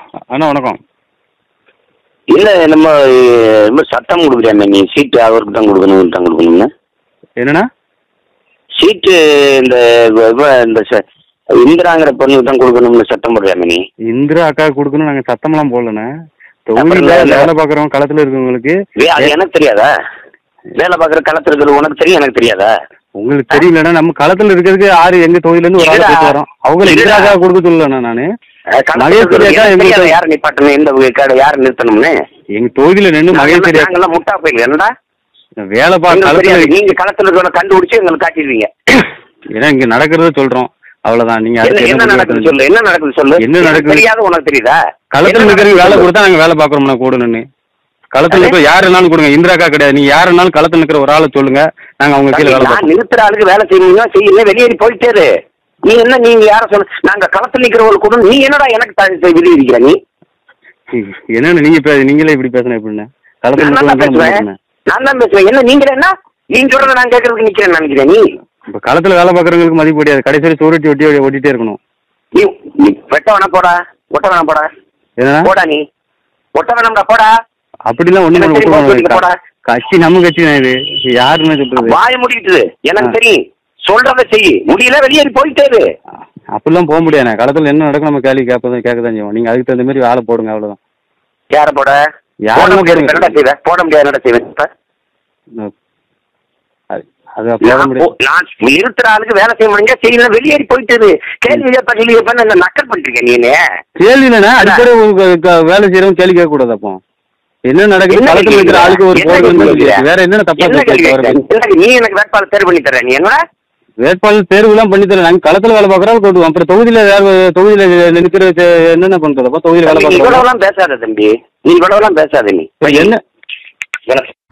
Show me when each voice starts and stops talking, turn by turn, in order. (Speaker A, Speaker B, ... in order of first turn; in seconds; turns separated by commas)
Speaker A: 0.3-0.8, Speaker B: 2.3-6.7, Speaker A: 7.4-7.7, Speaker B: 8.8-11.0, Speaker B: 11.6-13.8, Speaker A: 14.1-16.1, Speaker A: 16.7-19.4, Speaker B: 16.8-17.5, Speaker B: 19.0-19.9, Speaker B: 20.8-22.7, Speaker A: 23.2-28.3, Speaker B: 25.8-26.3, Speaker B: 26.8-27.3, Speaker B: 28.8-32.1, Speaker A: 29.0-30.2, Speaker A: 32.6-33.9, Speaker B: 33.3-34.9, Speaker A: 35.7-36.7, Speaker B: 36.1-39.0, Speaker A: 39.5-42.5, Speaker B: 41.6-46.1, Speaker A: 43.4-44.0, Speaker A: 45.1-47.4, Speaker A: 48.1-52.9, Speaker B: 48.3-48.6, Speaker B: 52.3-55.3, Speaker B: 55.9-60.0, Speaker A: 60.9-64.6, Speaker B: 63.6-68.2, Speaker A: 68.7-71.8, Speaker B: 72.3-74.7, Speaker A: 75.2-75.5, Speaker B: 75.4-75.8, Speaker B: 76.6-77.3, Speaker A: 77.9-82.0, Speaker B: 78.3-79.4, Speaker B: 81.8-85.8, Speaker A: 86.6-90.8, Speaker B: 91.5-92.0, Speaker A: 92.5-93.3, Speaker B: 92.6-94.7, Speaker A: 96.9-98.1, Speaker B: 97.6-103.6, Speaker A: 104.0-107.0, Speaker A: 107.7-111.4, Speaker B: 108.1-110.0, Speaker B: 110.6-113.4, Speaker A: 114.0-120.5, Speaker B: 119.9-123.1, Speaker A: 122.8-123.2